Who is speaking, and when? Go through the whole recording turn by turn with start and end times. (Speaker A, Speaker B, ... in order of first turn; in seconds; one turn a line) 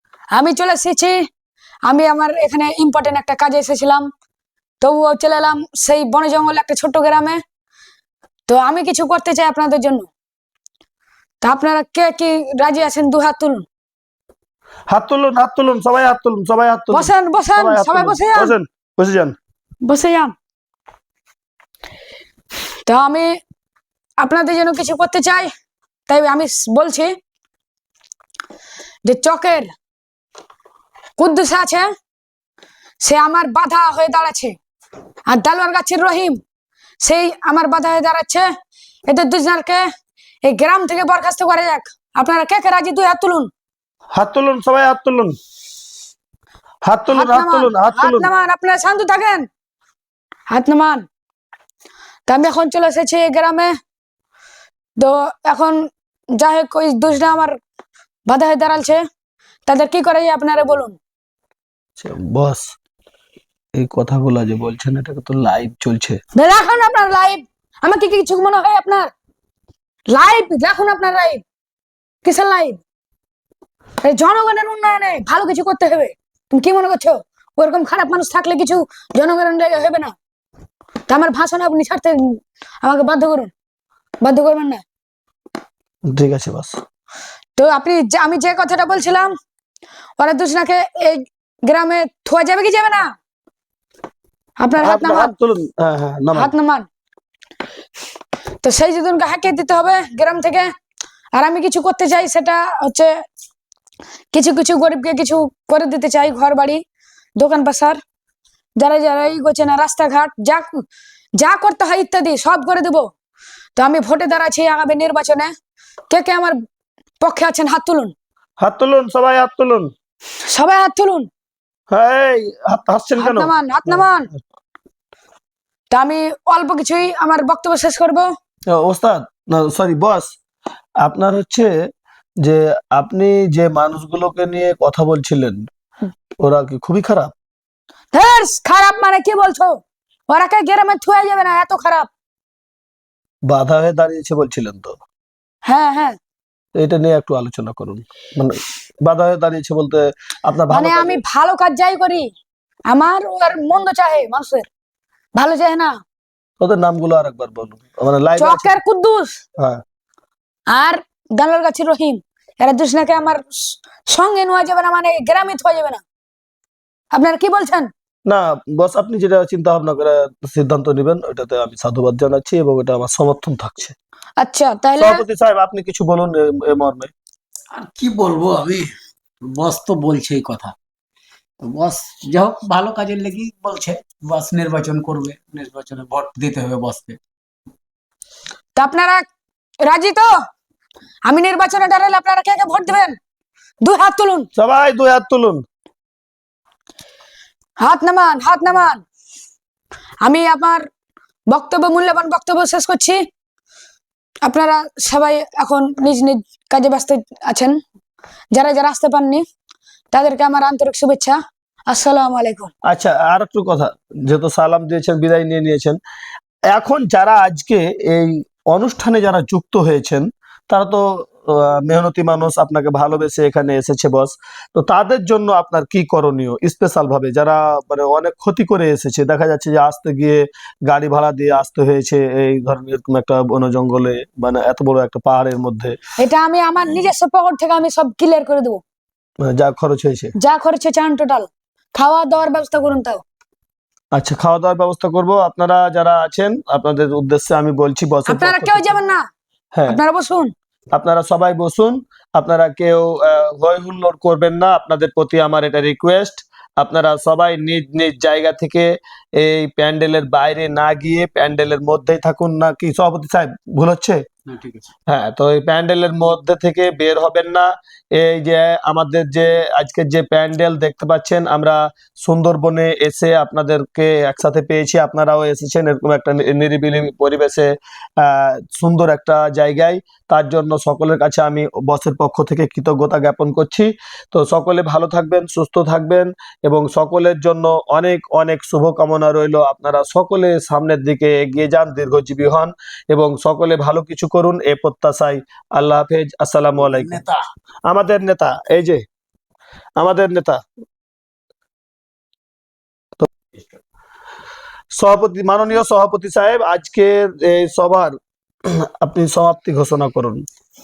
Speaker A: 0.3-1.1
Speaker A: 1.9-4.1
Speaker A: 4.8-7.4
Speaker A: 8.5-10.1
Speaker A: 11.4-13.7
Speaker B: 14.9-19.3
Speaker A: 16.9-18.5
Speaker A: 19.8-20.3
Speaker A: 22.9-23.4
Speaker A: 24.2-25.5
Speaker A: 26.1-27.1
Speaker A: 29.1-29.7
Speaker A: 31.2-31.9
Speaker A: 33.0-34.5
Speaker A: 35.3-36.4
Speaker A: 37.0-38.5
Speaker A: 39.1-39.9
Speaker A: 40.4-43.5
Speaker B: 44.1-45.3
Speaker B: 46.8-48.3
Speaker A: 47.1-49.5
Speaker A: 50.5-51.0
Speaker A: 52.3-53.7
Speaker A: 55.0-55.8
Speaker A: 56.4-57.5
Speaker A: 58.3-59.0
Speaker A: 59.7-61.0
Speaker B: 62.0-62.7
Speaker B: 63.8-66.2
Speaker A: 66.3-69.1
Speaker A: 70.1-71.4
Speaker A: 72.2-72.8
Speaker A: 74.0-80.1
Speaker A: 81.1-83.5
Speaker A: 84.2-84.8
Speaker B: 86.1-86.8
Speaker A: 87.6-89.3
Speaker A: 90.2-93.1
Speaker A: 94.6-95.3
Speaker B: 94.8-96.5
Speaker A: 96.3-96.9
Speaker A: 98.6-100.7
Speaker A: 101.3-103.1
Speaker A: 104.3-106.8
Speaker A: 107.4-108.0
Speaker A: 108.8-110.8
Speaker A: 111.4-113.1
Speaker A: 113.8-115.5
Speaker A: 116.1-116.6
Speaker A: 117.2-118.1
Speaker B: 118.6-119.9
Speaker A: 120.4-121.3
Speaker B: 121.9-124.1
Speaker A: 123.2-124.3
Speaker A: 125.9-128.3
Speaker B: 128.7-130.3
Speaker B: 131.0-131.7
Speaker B: 132.4-135.7
Speaker B: 136.4-137.3
Speaker A: 138.1-142.1
Speaker B: 143.5-145.0
Speaker A: 145.7-146.2
Speaker B: 146.7-151.2
Speaker A: 150.7-152.3
Speaker A: 152.9-154.7
Speaker A: 155.3-156.0
Speaker B: 156.6-158.7
Speaker A: 158.4-159.4
Speaker A: 160.7-166.0
Speaker A: 167.1-167.9
Speaker B: 168.2-173.9
Speaker A: 174.4-175.2
Speaker B: 175.0-177.1
Speaker C: 177.7-178.9
Speaker C: 179.5-180.7
Speaker C: 181.6-187.2
Speaker A: 188.8-189.2
Speaker A: 189.8-190.3
Speaker A: 191.3-193.2
Speaker A: 193.8-194.5
Speaker B: 194.6-195.6
Speaker A: 197.8-199.0
Speaker A: 200.2-200.8
Speaker A: 201.5-203.2
Speaker A: 204.4-207.8
Speaker A: 208.5-209.4
Speaker A: 210.1-212.7
Speaker B: 212.9-216.0
Speaker B: 216.7-236.0
Speaker A: 236.2-238.8
Speaker B: 239.4-240.3
Speaker A: 240.4-243.2
Speaker B: 244.1-248.9
Speaker A: 248.3-249.2
Speaker B: 249.7-250.0
Speaker A: 249.9-250.5
Speaker B: 250.9-264.2
Speaker C: 264.5-264.9
Speaker B: 265.1-297.2
Speaker C: 296.8-297.4
Speaker B: 297.9-299.0
Speaker B: 300.0-300.6
Speaker B: 304.9-308.1
Speaker B: 308.7-310.4